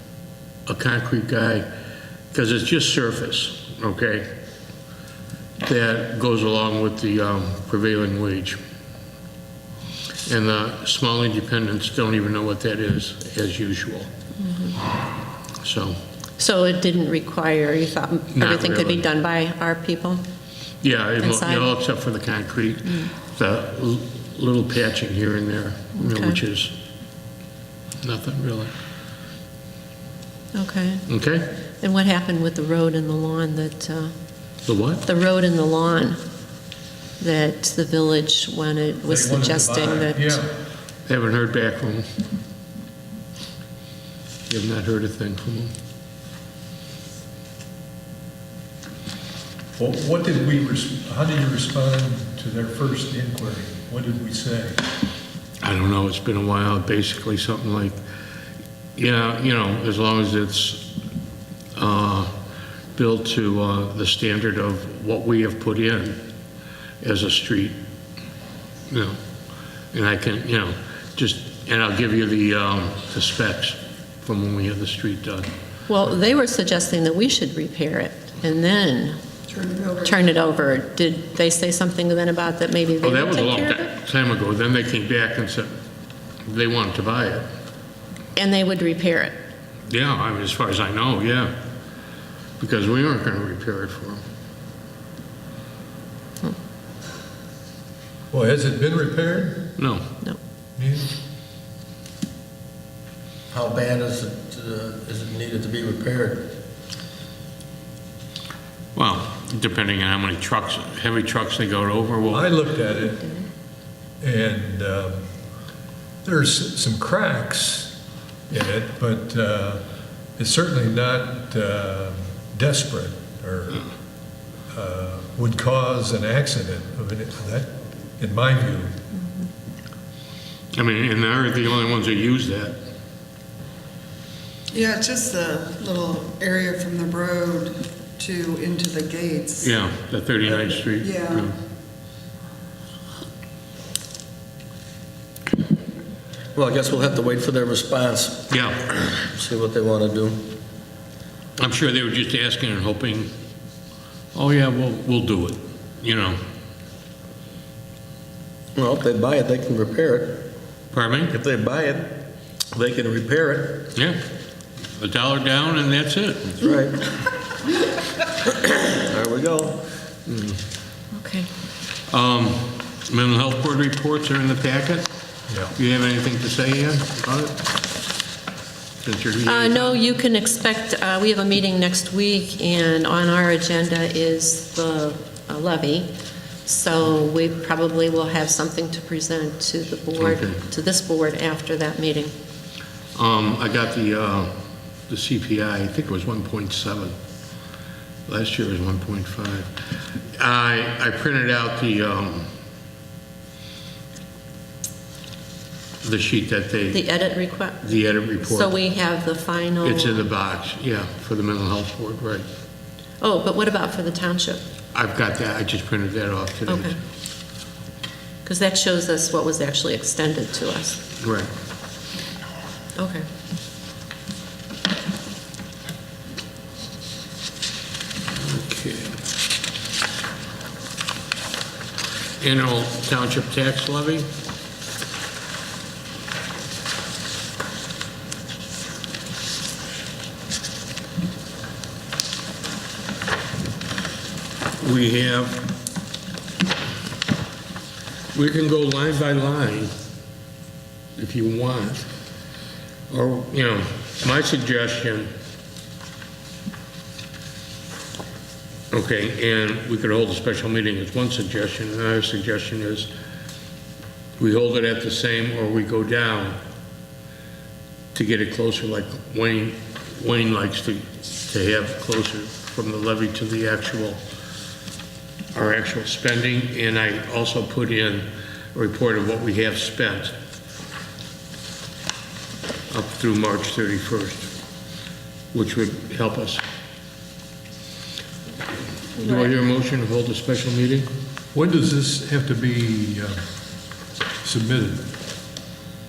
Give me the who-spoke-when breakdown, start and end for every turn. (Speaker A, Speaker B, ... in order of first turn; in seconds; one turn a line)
Speaker A: 0.7-1.7
Speaker A: 2.3-4.3
Speaker A: 5.6-8.6
Speaker A: 10.2-14.1
Speaker B: 14.4-14.8
Speaker A: 15.6-16.0
Speaker B: 16.4-20.2
Speaker A: 18.3-19.1
Speaker A: 20.8-26.7
Speaker B: 21.2-21.7
Speaker B: 26.0-26.4
Speaker A: 28.0-28.7
Speaker B: 30.5-31.1
Speaker A: 31.1-31.5
Speaker B: 31.8-34.1
Speaker A: 34.6-35.0
Speaker B: 35.0-36.2
Speaker B: 37.2-40.4
Speaker C: 39.1-40.5
Speaker A: 41.0-42.1
Speaker A: 44.5-45.7
Speaker C: 49.8-54.8
Speaker A: 55.6-58.0
Speaker A: 59.0-60.9
Speaker A: 61.7-62.3
Speaker A: 62.9-66.2
Speaker A: 67.0-67.8
Speaker A: 68.9-69.2
Speaker A: 69.9-75.5
Speaker B: 75.9-79.2
Speaker D: 79.5-80.2
Speaker B: 80.0-83.9
Speaker A: 83.0-85.7
Speaker A: 86.5-87.5
Speaker B: 88.3-89.3
Speaker A: 89.9-91.5
Speaker A: 92.6-94.2
Speaker C: 98.3-99.8
Speaker A: 99.8-100.0
Speaker C: 100.8-101.1
Speaker E: 103.5-106.5
Speaker A: 108.9-112.5
Speaker C: 112.3-113.3
Speaker C: 114.2-115.2
Speaker C: 116.2-117.9
Speaker C: 118.5-119.8
Speaker C: 120.4-123.9
Speaker C: 124.7-128.9
Speaker A: 130.7-132.8
Speaker D: 134.7-139.8
Speaker A: 139.6-141.5
Speaker D: 140.7-141.5
Speaker E: 146.5-148.5
Speaker A: 148.5-148.9
Speaker E: 149.2-150.4
Speaker A: 151.6-153.3
Speaker A: 154.3-156.4
Speaker E: 158.8-160.4
Speaker A: 160.9-161.3
Speaker E: 161.3-162.1
Speaker E: 162.7-163.9
Speaker A: 163.9-164.2
Speaker A: 164.9-166.6
Speaker E: 166.6-167.1
Speaker E: 168.4-169.8
Speaker A: 170.3-170.6
Speaker B: 171.1-171.5
Speaker A: 172.1-175.1
Speaker A: 175.7-177.6
Speaker A: 179.0-180.0
Speaker B: 179.4-186.1
Speaker B: 186.7-192.3
Speaker A: 190.2-190.6
Speaker A: 193.1-194.5
Speaker A: 195.1-197.1
Speaker A: 198.3-199.7
Speaker A: 200.3-202.5
Speaker A: 206.0-207.1
Speaker B: 206.9-210.3
Speaker A: 207.8-208.7
Speaker A: 209.8-212.4
Speaker B: 213.2-214.6
Speaker A: 214.9-217.0
Speaker B: 216.7-216.9
Speaker B: 218.4-221.0
Speaker A: 221.2-221.5
Speaker B: 222.9-223.2
Speaker A: 228.3-229.2
Speaker A: 232.4-234.3
Speaker A: 244.8-245.7
Speaker A: 248.3-249.9
Speaker A: 251.2-252.0
Speaker A: 253.1-255.3
Speaker A: 258.9-263.1
Speaker A: 264.4-266.6
Speaker A: 268.1-274.2
Speaker A: 275.5-280.3
Speaker A: 282.9-284.5
Speaker A: 285.5-286.6
Speaker A: 289.1-291.1
Speaker B: 289.2-289.5
Speaker C: 291.5-293.4
Speaker C: 294.4-295.1